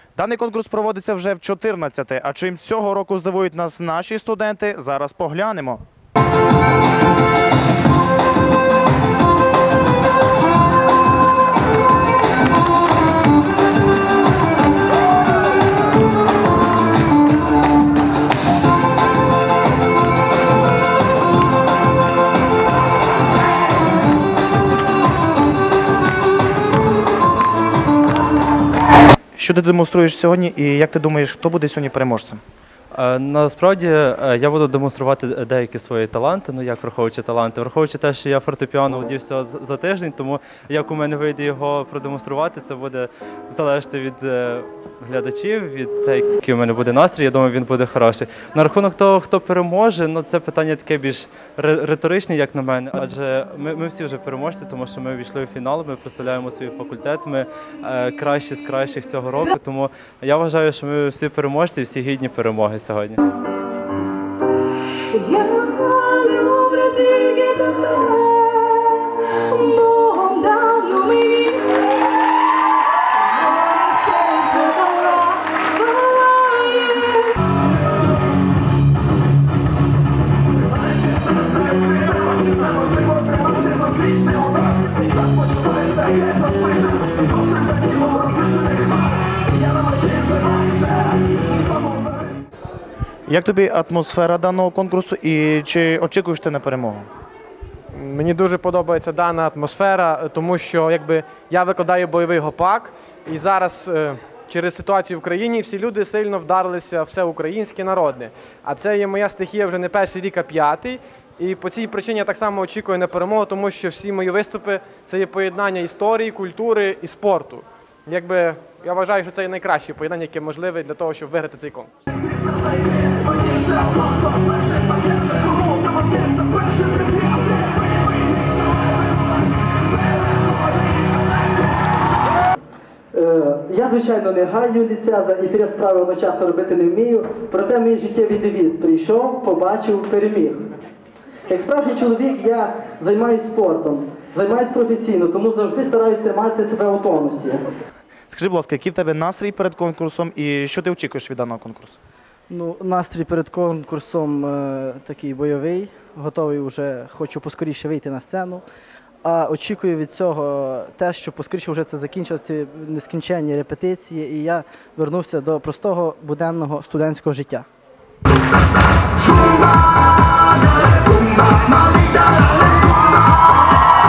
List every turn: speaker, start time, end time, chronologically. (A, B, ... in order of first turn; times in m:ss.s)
0:00.2-0:05.8 A
0:29.4-0:32.4 A
0:32.9-1:03.2 B
1:05.1-1:12.5 C
1:13.4-1:17.3 C
1:33.3-1:37.1 A
1:37.9-2:01.9 D
2:13.1-2:20.6 E
2:21.5-2:27.6 E
2:28.3-2:32.0 A
2:32.5-2:38.6 E
2:39.2-2:47.6 E